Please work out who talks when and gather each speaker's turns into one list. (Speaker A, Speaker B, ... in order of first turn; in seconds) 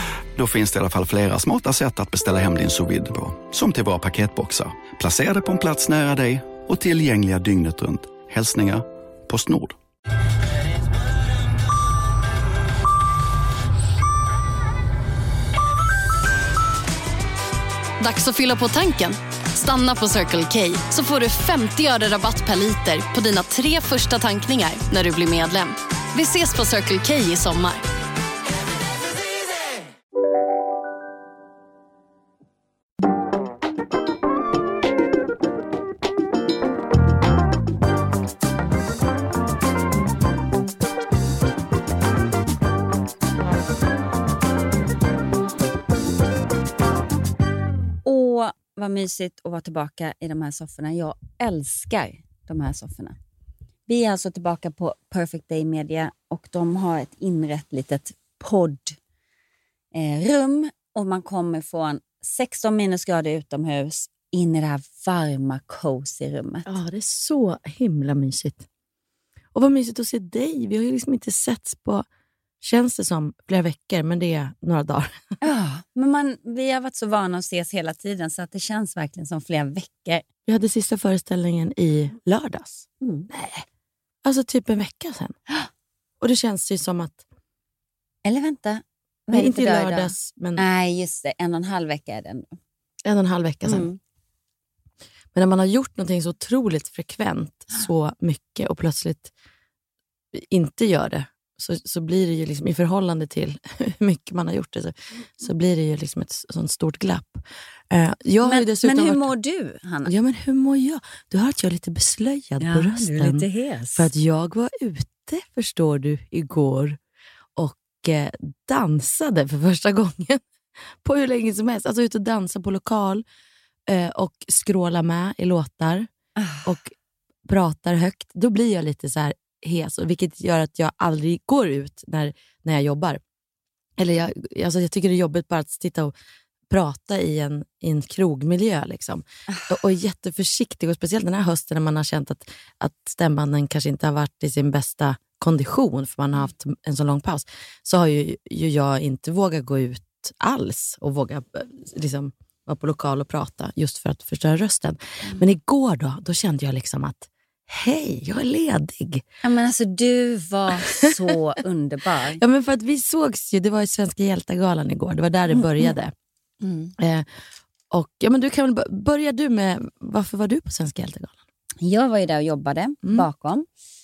Speaker A: 0.3-9.8
Speaker B: 18.0-27.9
Speaker C: 48.0-53.2, 53.9-59.0, 59.9-66.7, 75.4-80.2, 83.0-83.3, 88.2-92.5, 93.7-94.0, 108.4-110.1, 112.6-114.1, 126.4-126.7, 159.4-162.4, 165.6-165.9, 166.6-166.9, 171.8-173.7
Speaker D: 66.7-68.7, 69.5-72.1, 72.6-75.2, 80.5-83.7, 84.2-85.4, 86.2-87.2, 89.3-90.6, 93.0-93.9, 95.3-99.3, 100.3-109.2, 110.0-113.5, 114.0-117.0, 117.6-120.4, 121.0-123.2, 123.9-126.1, 126.7-126.9, 127.5-133.2, 134.0-136.1, 136.7-159.2, 162.4-166.1, 167.0-167.3, 167.9-171.4